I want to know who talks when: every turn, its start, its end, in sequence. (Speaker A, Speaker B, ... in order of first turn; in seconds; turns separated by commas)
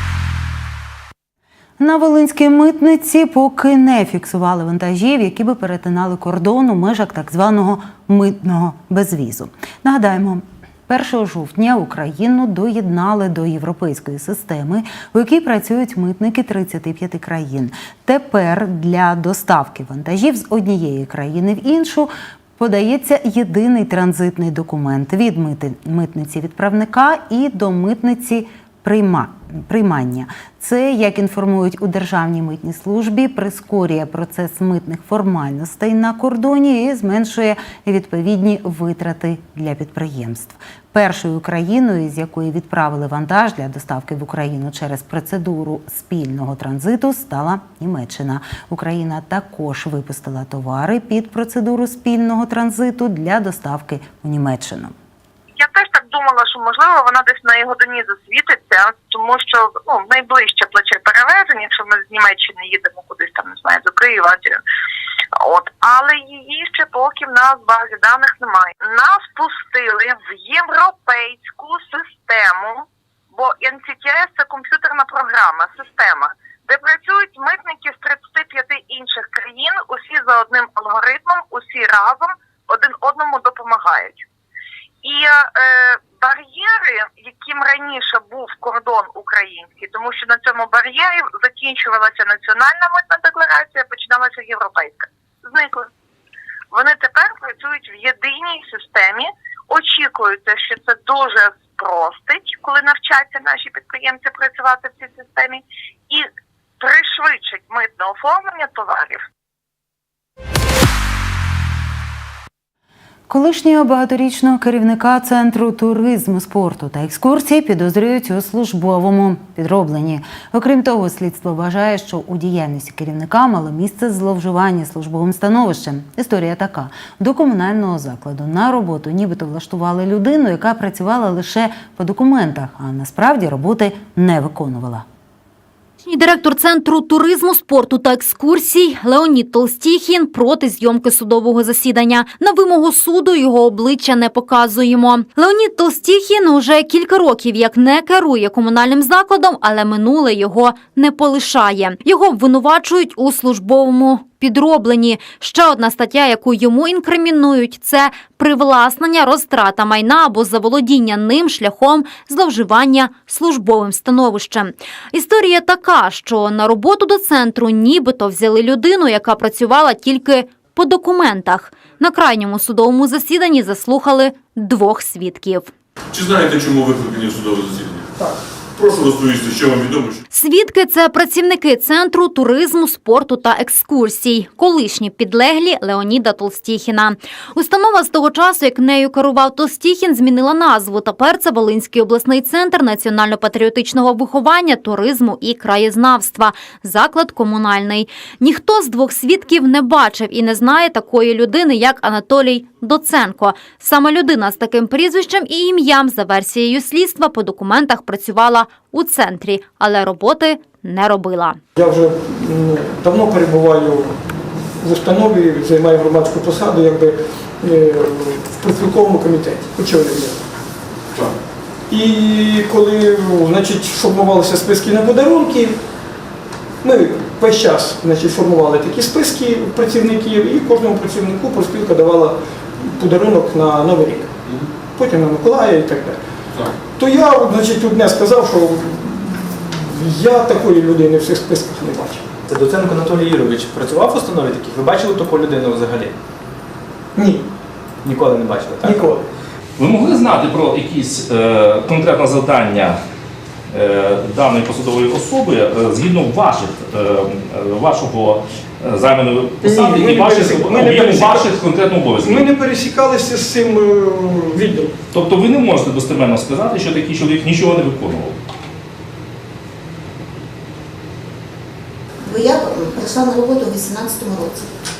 Speaker A: 1.8-55.0, Speaker B: 55.5-64.6, Speaker B: 65.4-84.2, Speaker B: 85.0-95.9, Speaker B: 96.7-106.3, Speaker B: 106.8-109.2, Speaker A: 113.3-135.1, Speaker C: 136.1-175.7, Speaker D: 176.1-178.1, Speaker D: 178.8-180.2, Speaker C: 180.3-211.6, Speaker E: 211.8-220.4, Speaker E: 221.9-225.8, Speaker E: 226.8-234.3, Speaker E: 234.9-236.2, Speaker E: 236.9-242.3, Speaker F: 242.5-246.1, Speaker E: 247.2-247.5, Speaker F: 248.1-248.8, Speaker E: 248.8-249.2, Speaker G: 249.8-253.0, Speaker G: 253.7-262.5, Speaker E: 259.6-261.6, Speaker E: 262.2-264.9, Speaker G: 265.1-268.4, Speaker H: 272.2-274.7